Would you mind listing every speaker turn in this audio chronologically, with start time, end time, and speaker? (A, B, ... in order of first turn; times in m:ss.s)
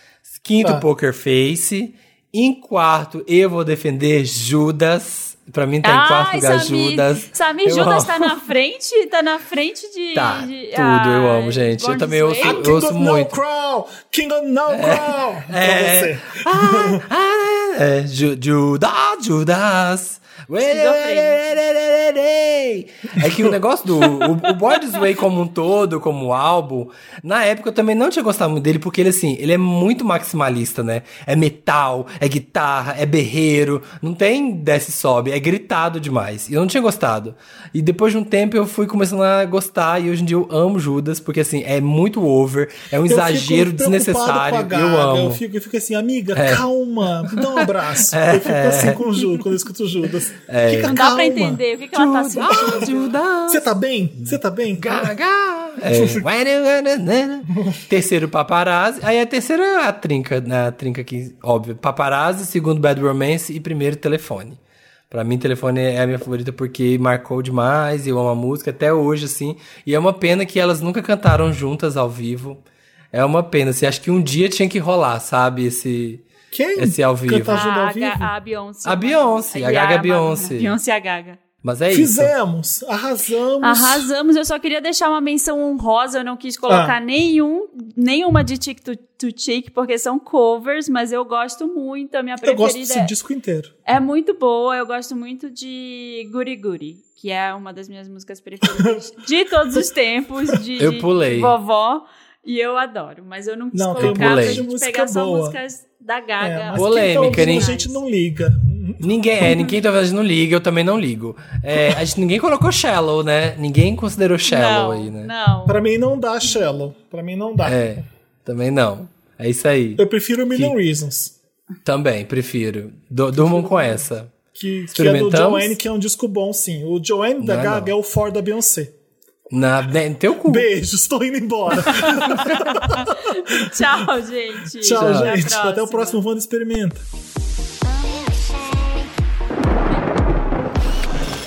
0:00.3-0:08.4 A
0:05.8-0:12.8 B
0:10.1-0:13.3 A
0:12.4-0:17.0 C
0:14.7-0:45.4 A
0:20.6-0:21.6 B
0:43.1-0:51.6 C
0:46.3-0:46.6 A
0:47.2-0:49.1 A
0:50.5-0:51.0 A
0:50.9-0:53.0 B
0:51.9-0:53.7 A
0:52.5-0:52.9 C
0:53.5-0:55.1 C
0:54.2-1:04.6 A
0:55.9-0:56.2 C
1:05.1-1:12.6 A
1:13.1-1:16.2 A
1:16.5-1:18.3 C
1:16.8-1:17.6 A
1:17.5-1:21.4 B
1:18.8-1:20.8 A
1:21.6-1:22.3 A
1:21.9-1:24.1 C
1:23.6-1:33.1 B
1:26.7-1:26.9 C
1:32.4-1:33.7 C
1:33.8-1:48.0 B
1:38.7-1:39.1 C
1:40.8-1:41.5 A
1:43.7-1:45.6 C
1:44.0-1:44.6 A
1:46.4-1:49.1 C
1:46.8-1:47.7 A
1:49.0-1:55.3 A
1:51.7-1:52.0 C
1:54.5-1:55.8 B
1:55.7-1:57.8 C
1:57.6-2:00.7 A
2:00.0-2:01.3 C
2:01.8-2:04.3 A
2:04.5-2:08.9 C
2:05.0-2:05.7 A
2:07.4-2:07.9 A
2:09.5-2:10.7 A
2:10.4-2:14.0 C
2:12.0-2:16.2 B
2:14.8-2:17.0 C
2:14.9-2:15.4 A